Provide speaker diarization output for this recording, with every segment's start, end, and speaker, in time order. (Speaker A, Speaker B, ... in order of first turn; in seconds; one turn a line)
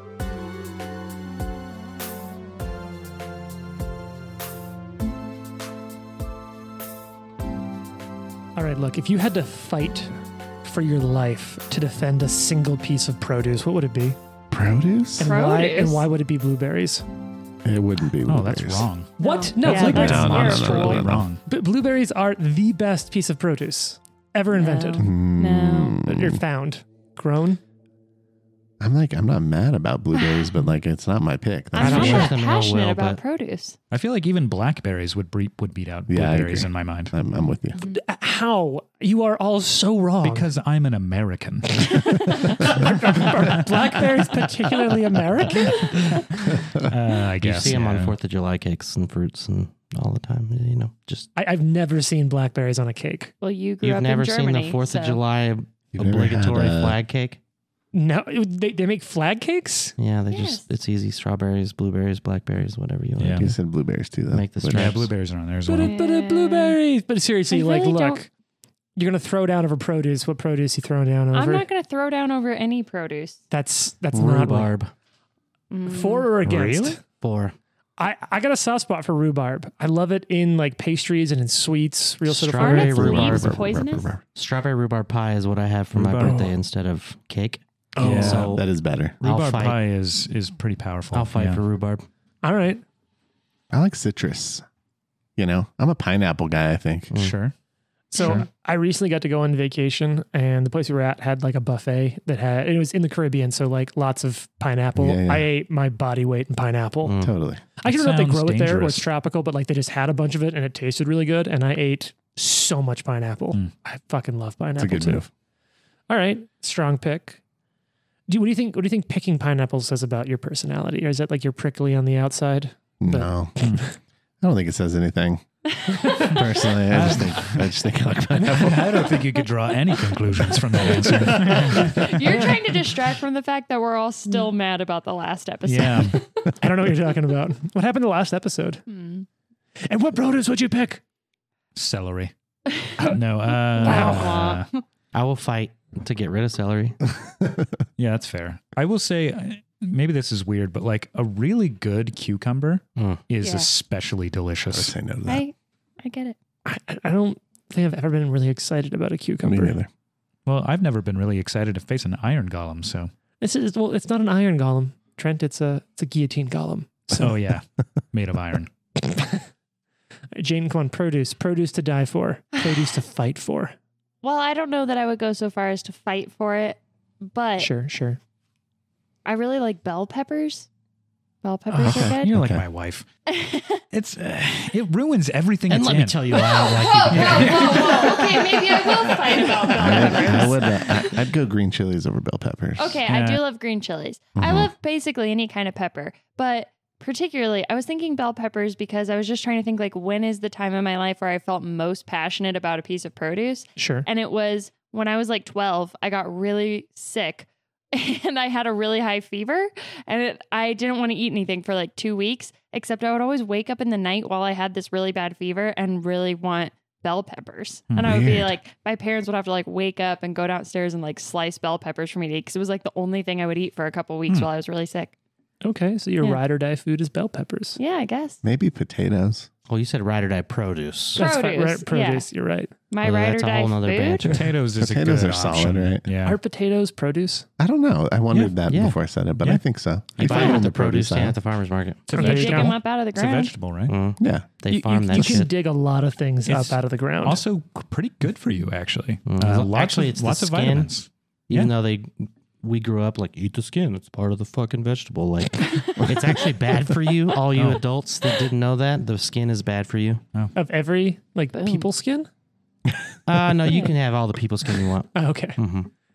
Speaker A: 8.6-14.2
Speaker B: 14.5-15.3
Speaker A: 15.2-17.1
Speaker C: 15.2-16.1
Speaker B: 17.6-18.9
Speaker D: 18.3-21.4
Speaker C: 19.2-21.1
Speaker A: 19.2-20.8
Speaker B: 19.8-21.3
Speaker A: 21.4-25.1
Speaker C: 24.5-26.0
Speaker B: 25.0-26.4
Speaker A: 26.0-27.6
Speaker B: 28.8-32.3
Speaker C: 30.2-30.5
Speaker C: 31.7-33.8
Speaker A: 31.8-32.3
Speaker E: 31.8-33.2
Speaker D: 33.9-37.1
Speaker B: 36.1-37.8
Speaker A: 37.9-40.5
Speaker D: 40.2-42.8
Speaker A: 41.7-46.4
Speaker D: 46.4-48.1
Speaker E: 47.4-51.3
Speaker A: 51.4-53.3
Speaker C: 53.4-55.2
Speaker E: 53.8-57.4
Speaker B: 55.9-57.0
Speaker A: 57.9-60.0
Speaker E: 60.0-63.5
Speaker C: 60.3-60.6
Speaker D: 63.2-63.5
Speaker B: 63.4-65.1
Speaker E: 64.3-65.1
Speaker D: 64.7-65.9
Speaker A: 65.6-68.3
Speaker C: 65.8-66.8
Speaker C: 67.5-68.2
Speaker A: 69.0-71.7
Speaker C: 71.3-73.4
Speaker A: 73.5-74.7
Speaker E: 74.1-74.9
Speaker C: 75.7-76.3
Speaker A: 75.8-77.0
Speaker E: 76.5-77.5
Speaker A: 78.0-83.3
Speaker E: 82.3-88.7
Speaker C: 82.5-84.1
Speaker B: 82.9-84.2
Speaker D: 85.9-86.5
Speaker A: 86.2-86.5
Speaker A: 88.0-88.5
Speaker D: 88.0-88.6
Speaker B: 88.5-89.2
Speaker E: 89.2-89.8
Speaker D: 89.2-91.6
Speaker E: 91.1-92.1
Speaker A: 92.4-92.8
Speaker B: 93.7-94.7
Speaker B: 95.4-97.2
Speaker D: 97.1-97.5
Speaker A: 98.1-107.2
Speaker D: 98.2-98.5
Speaker B: 105.0-105.5
Speaker E: 107.0-107.3
Speaker B: 107.2-107.7
Speaker A: 107.8-115.2
Speaker D: 107.9-109.1
Speaker B: 114.8-115.3
Speaker A: 116.1-117.4
Speaker A: 118.3-123.9
Speaker B: 123.0-123.6
Speaker D: 123.6-123.8
Speaker B: 124.4-125.5
Speaker C: 125.8-126.5
Speaker B: 126.2-129.2
Speaker D: 126.9-127.7
Speaker D: 128.4-132.5
Speaker A: 131.0-132.0
Speaker C: 131.3-136.5
Speaker D: 135.7-136.2
Speaker A: 136.6-138.8
Speaker C: 138.9-139.3
Speaker A: 139.8-141.0
Speaker D: 141.8-142.3
Speaker D: 143.1-144.7
Speaker C: 143.7-144.8
Speaker A: 143.8-144.5
Speaker E: 145.1-147.0
Speaker B: 147.2-147.7
Speaker D: 148.0-154.9
Speaker E: 153.0-153.2
Speaker C: 153.4-153.7
Speaker B: 154.7-155.4
Speaker C: 155.3-156.4
Speaker A: 156.7-159.8
Speaker B: 159.4-159.9
Speaker D: 160.5-163.1
Speaker A: 163.4-167.3
Speaker D: 167.1-168.7
Speaker A: 169.0-169.4
Speaker A: 170.3-173.8
Speaker C: 174.2-177.7
Speaker A: 177.6-178.2
Speaker C: 179.2-180.7
Speaker C: 181.4-182.3
Speaker B: 181.7-182.7
Speaker D: 181.9-183.1
Speaker C: 183.3-183.8
Speaker D: 183.9-188.6
Speaker E: 185.7-188.3
Speaker C: 186.3-191.3
Speaker B: 189.8-193.0
Speaker D: 190.2-190.5
Speaker E: 190.3-190.5
Speaker C: 192.8-225.1
Speaker D: 193.1-193.4
Speaker B: 194.4-194.7
Speaker A: 203.8-204.1
Speaker D: 217.9-218.3
Speaker B: 218.0-218.5
Speaker A: 225.6-227.8
Speaker C: 227.8-228.4
Speaker B: 228.4-229.5
Speaker E: 229.7-231.2
Speaker C: 231.2-232.3
Speaker A: 231.2-232.7
Speaker C: 232.9-234.5
Speaker E: 233.0-234.5
Speaker D: 234.3-236.4
Speaker B: 234.7-236.1
Speaker A: 236.2-237.5
Speaker B: 237.6-241.4
Speaker D: 238.3-238.6
Speaker E: 238.7-239.0
Speaker D: 240.2-240.6
Speaker E: 240.2-242.1
Speaker C: 240.3-240.6
Speaker D: 242.1-243.9
Speaker A: 242.1-242.8
Speaker C: 242.1-243.6
Speaker E: 243.9-245.5
Speaker B: 244.2-244.5
Speaker A: 244.7-247.4
Speaker D: 245.2-245.4
Speaker D: 246.5-251.7
Speaker E: 249.3-250.9
Speaker E: 251.5-260.2
Speaker C: 255.7-256.0
Speaker D: 257.5-257.8
Speaker A: 260.6-262.3
Speaker C: 261.5-261.9
Speaker E: 263.3-265.9
Speaker A: 265.1-265.6